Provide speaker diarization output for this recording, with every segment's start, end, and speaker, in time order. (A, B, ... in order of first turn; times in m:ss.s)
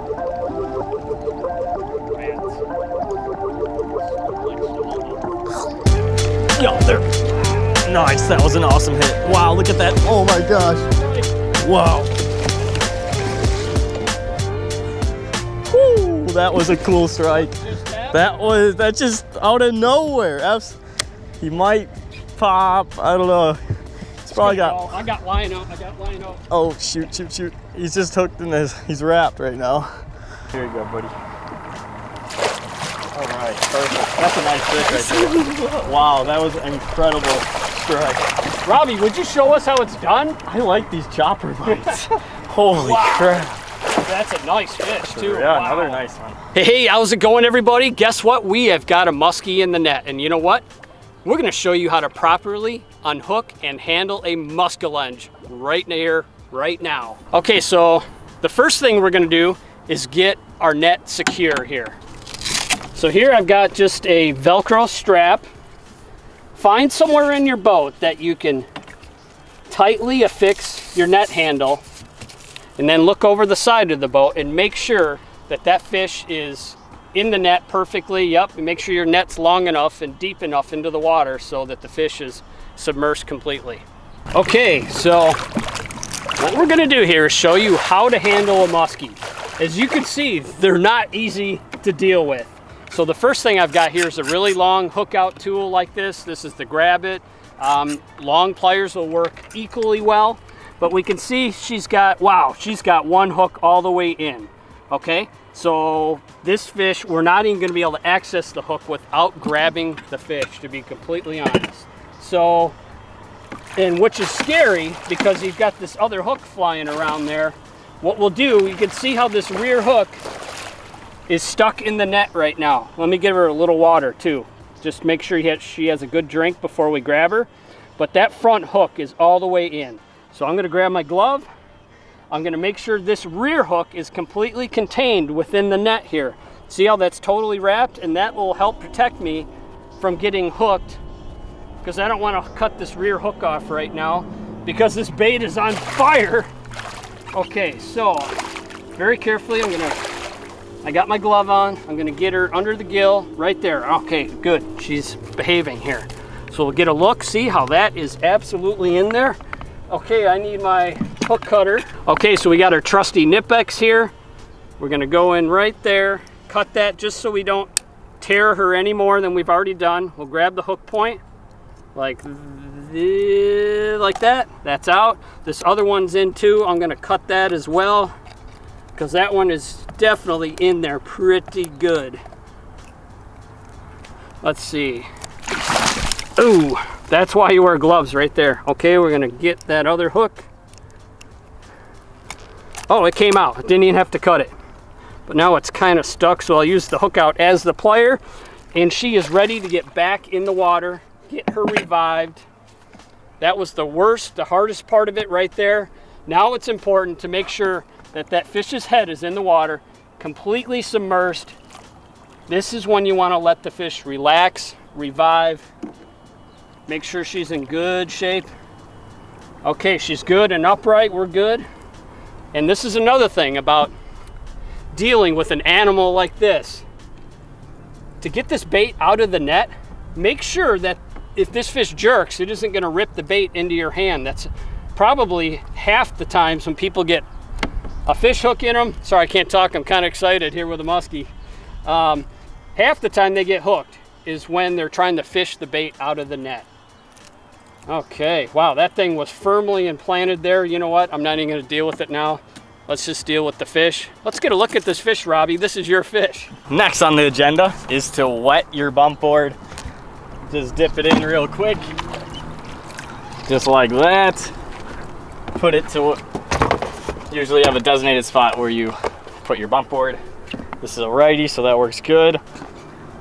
0:02.1-0:02.6 A
0:04.0-0:05.3 A
0:06.6-0:11.0 B
0:11.6-0:12.1 B
0:15.7-0:17.6 B
0:17.3-0:18.3 A
0:18.1-0:20.8 B
0:21.4-0:23.6 B
0:24.2-0:24.9 B
0:24.3-0:26.4 A
0:26.5-0:30.0 B
0:30.5-0:31.2 B
0:33.1-0:38.3 B
0:34.8-0:35.4 A
0:38.6-0:40.4 A
0:40.4-0:43.6 B
0:41.7-0:42.0 A
0:42.7-0:43.5 A
0:44.0-0:46.0 A
0:45.1-0:46.4 B
0:46.5-0:50.6 A
0:51.2-1:02.0 A
1:02.9-1:05.4 A
1:06.6-1:08.7 A
1:09.7-1:11.8 A
1:12.8-1:23.8 A
1:24.4-1:25.4 A
1:26.4-1:52.8 A
1:53.8-2:00.2 A
2:01.3-2:11.5 A
2:12.3-2:21.0 A
2:21.8-2:26.5 A
2:27.3-2:28.4 A
2:29.0-2:30.0 A
2:30.8-2:39.4 A
2:39.9-2:44.1 A
2:44.8-2:51.2 A
2:52.0-2:58.1 A
2:59.0-3:02.2 A
3:04.4-3:05.1 A
3:06.4-3:10.5 A
3:12.9-3:14.5 A
3:15.3-3:18.2 A
3:18.7-3:22.4 A
3:23.4-3:31.6 A
3:32.5-3:35.7 A
3:36.9-3:38.5 A
3:39.6-3:41.6 A
3:42.5-3:43.9 A
3:44.9-3:46.9 A
3:48.2-3:57.3 A
3:58.1-4:01.3 A
4:01.8-4:06.7 A
4:07.9-4:16.5 A
4:16.7-4:19.6 B
4:20.5-4:21.9 B
4:23.5-4:24.5 B
4:25.5-4:26.2 B
4:27.3-4:30.2 B
4:30.8-4:32.4 B